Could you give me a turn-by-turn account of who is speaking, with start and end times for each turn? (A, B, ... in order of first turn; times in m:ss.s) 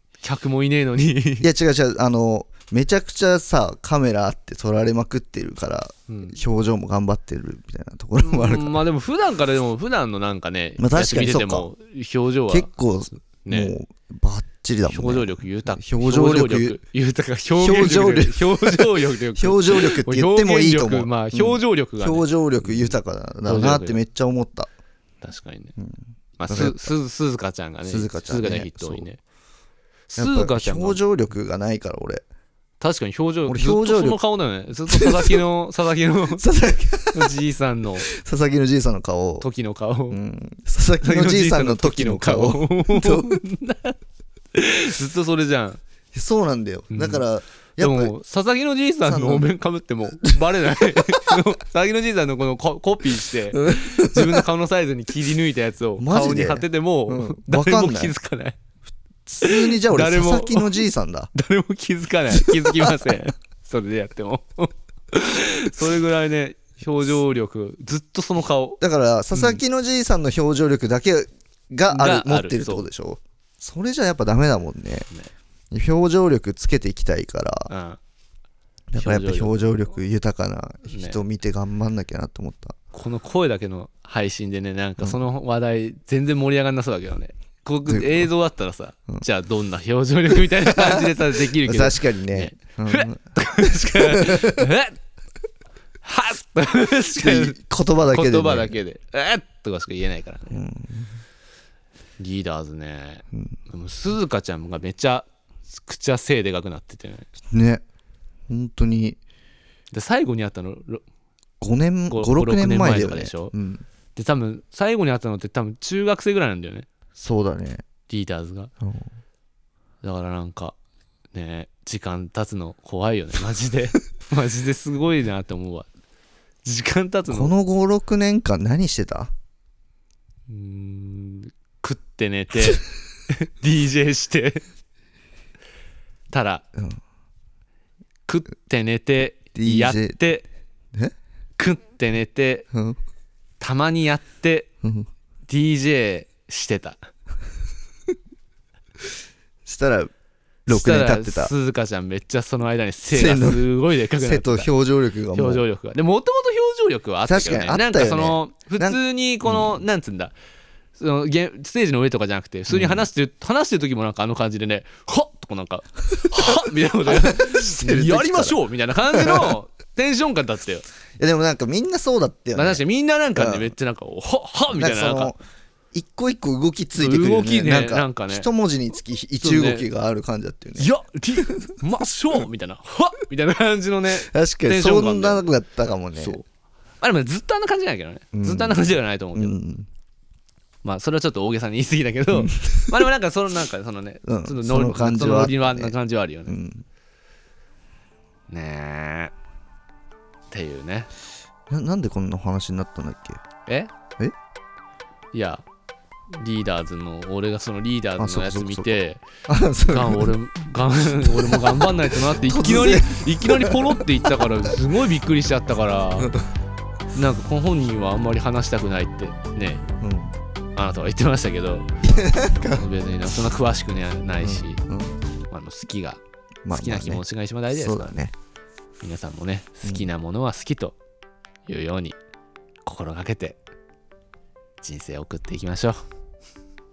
0:00.2-0:01.5 A
0:01.4-0:08.7 B
0:06.1-0:06.4 A
0:08.2-0:13.8 A
0:10.8-0:11.7 B
0:12.5-0:16.8 B
0:14.9-0:24.0 A
0:17.6-0:24.7 B
0:25.2-0:25.7 A
0:25.8-0:26.9 B
0:26.4-0:29.2 A
0:27.8-0:29.1 B
0:30.1-0:31.0 A
0:30.2-0:32.2 B
0:32.8-0:36.4 A
0:33.5-0:34.2 B
0:34.9-0:35.4 B
0:36.3-0:37.4 B
0:37.1-0:38.1 A
0:38.0-0:39.5 B
0:39.4-0:40.2 A
0:40.1-0:43.4 B
0:41.0-0:44.0 A
0:44.5-0:45.8 A
0:46.1-0:48.2 B
0:46.9-0:47.3 A
0:47.8-0:58.6 A
0:49.1-0:49.5 B
0:53.5-0:54.5 B
0:56.0-0:58.1 B
0:59.3-1:01.3 B
0:59.4-1:08.8 A
1:02.3-1:03.2 B
1:08.8-1:15.1 B
1:09.3-1:09.6 A
1:11.9-1:12.9 A
1:15.7-1:17.7 B
1:17.7-1:18.0 A
1:18.9-1:22.8 B
1:19.0-1:19.7 A
1:20.9-1:21.2 A
1:22.9-1:35.0 A
1:27.9-1:28.3 B
1:30.4-1:34.6 B
1:36.0-1:37.6 A
1:37.2-1:38.8 B
1:38.1-1:40.6 A
1:40.5-1:41.2 B
1:42.2-1:47.3 A
1:47.5-1:47.8 B
1:48.5-1:49.2 B
1:49.9-1:51.0 A
1:51.6-1:53.8 B
1:52.1-1:53.6 A
1:54.2-1:56.9 A
1:57.2-1:57.8 B
1:58.1-1:58.7 A
1:58.8-1:59.1 B
2:00.0-2:00.8 A
2:01.3-2:05.9 A
2:06.6-2:07.5 A
2:07.3-2:09.3 B
2:10.5-2:14.6 A
2:16.3-2:16.7 A
2:18.3-2:20.4 A
2:19.6-2:20.2 B
2:21.6-2:22.7 A
2:22.7-2:23.0 B
2:23.6-2:24.7 A
2:24.8-2:25.1 B
2:25.5-2:27.0 A
2:29.7-2:30.1 B
2:30.7-2:31.5 B
2:30.7-2:34.7 A
2:33.1-2:33.6 B
2:34.2-2:35.6 B
2:35.3-2:40.4 A
2:37.2-2:39.8 B
2:41.0-2:50.8 A
2:42.7-2:43.1 B
2:46.3-2:48.6 B
2:49.1-2:49.6 B
2:51.2-2:52.8 B
2:52.6-2:55.4 A
2:53.4-2:53.7 B
2:54.7-2:55.4 B
2:55.9-3:00.9 B
2:57.0-2:58.5 A
2:59.4-2:59.9 A
3:00.8-3:05.5 A
3:04.2-3:06.4 B
3:06.2-3:06.4 A
3:07.0-3:09.6 A
3:08.3-3:09.9 B
3:10.8-3:16.6 A
3:12.3-3:13.0 B
3:14.3-3:15.9 B
3:16.5-3:16.8 B
3:18.5-3:19.3 A
3:20.5-3:21.1 A
3:21.7-3:23.4 B
3:23.7-3:23.9 A
3:25.3-3:25.6 A
3:26.3-3:29.2 A
3:28.2-3:28.9 B
3:29.5-3:30.4 B
3:29.9-3:36.4 A
3:31.1-3:34.0 B
3:37.1-3:39.9 A
3:40.0-3:40.3 B
3:40.8-3:41.9 A
3:42.1-3:42.8 B
3:42.4-3:44.8 A
3:44.4-3:45.2 B
3:45.5-3:48.2 A
3:46.6-3:48.3 B
3:49.0-3:51.0 A
3:49.8-3:50.1 B
3:51.7-3:52.2 A
3:52.8-3:53.6 A
3:54.8-3:56.0 A